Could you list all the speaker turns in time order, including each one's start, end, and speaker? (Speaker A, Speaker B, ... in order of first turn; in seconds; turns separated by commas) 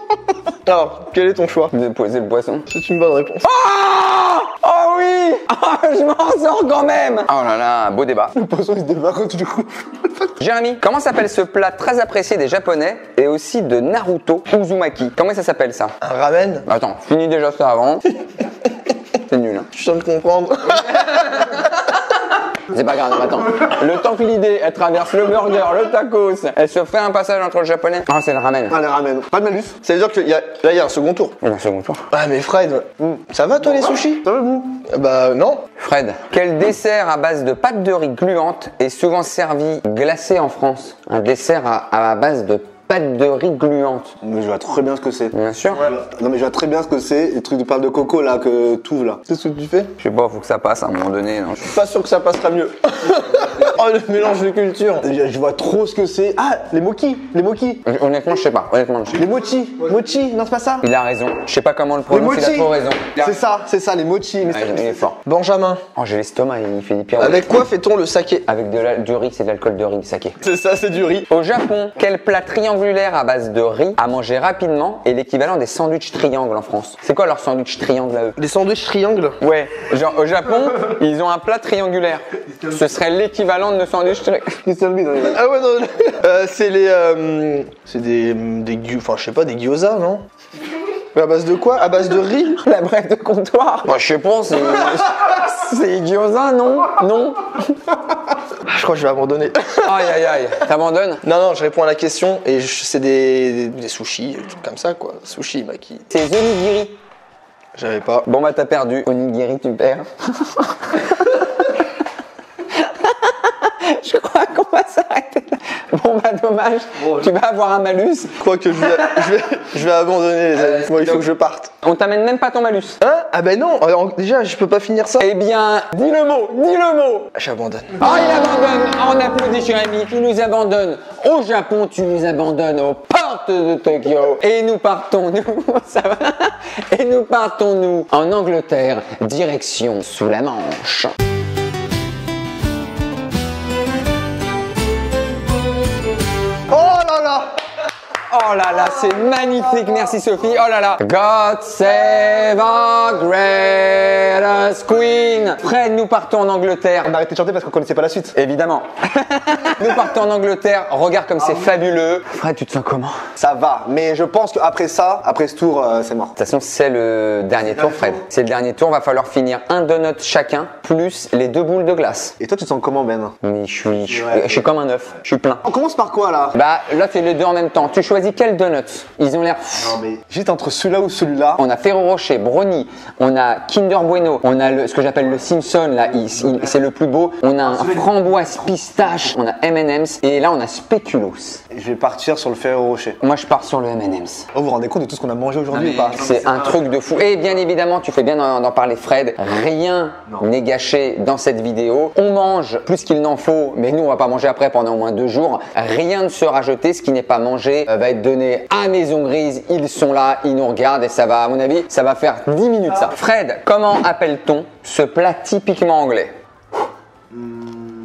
Speaker A: 0.6-1.7, Speaker B: 1.7-2.7, Speaker A: 2.7-3.4, Speaker B: 3.4-8.3, Speaker C: 8.3-10.3, Speaker B: 10.4-15.9, Speaker A: 16.0-16.6, Speaker B: 16.6-18.0, Speaker B: 19.3-19.7, Speaker A: 19.7-21.0, Speaker B: 20.8-21.6, Speaker B: 22.7-28.8, Speaker C: 28.7-29.8, Speaker A: 29.8-31.4, Speaker B: 31.4-32.1, Speaker A: 32.1-34.2, Speaker C: 33.0-34.8, Speaker A: 34.8-35.6, Speaker B: 35.8-44.1, Speaker C: 44.2-49.3, Speaker B: 45.3-45.9, Speaker A: 49.3-49.9, Speaker B: 50.0-51.7, Speaker A: 51.6-55.0, Speaker C: 55.0-57.8, Speaker B: 57.8-59.3, Speaker C: 59.1-60.8, Speaker B: 60.8-63.3, Speaker C: 62.1-65.0, Speaker B: 64.5-65.2, Speaker A: 65.2-65.8, Speaker B: 66.0-67.4, Speaker A: 67.2-68.5, Speaker B: 68.5-70.4, Speaker A: 70.4-71.3, Speaker B: 71.3-78.4, Speaker A: 78.4-79.4, Speaker B: 79.4-84.6, Speaker C: 84.6-85.4, Speaker A: 85.3-90.2, Speaker A: 91.1-92.6, Speaker B: 92.6-97.7, Speaker A: 98.7-100.0, Speaker B: 99.7-101.2, Speaker A: 101.2-106.1, Speaker B: 106.1-107.0, Speaker A: 107.8-108.2, Speaker B: 108.2-111.4, Speaker B: 112.8-118.3, Speaker A: 118.4-121.7, Speaker B: 120.5-121.2, Speaker B: 121.8-123.0, Speaker A: 123.0-125.3, Speaker B: 125.2-127.3, Speaker A: 127.3-127.9, Speaker B: 128.0-141.1, Speaker C: 146.7-147.5, Speaker B: 148.3-157.1, Speaker C: 157.0-158.3, Speaker B: 158.3-163.2, Speaker C: 163.3-166.3, Speaker B: 166.4-172.3, Speaker C: 172.4-173.3, Speaker B: 173.4-175.6, Speaker C: 174.1-174.6, Speaker C: 175.6-176.6, Speaker B: 176.6-180.0, Speaker C: 180.0-181.6, Speaker B: 181.6-191.6, Speaker C: 191.7-193.2, Speaker B: 193.2-194.5, Speaker C: 194.5-196.4, Speaker B: 195.7-216.3, Speaker C: 217.3-217.8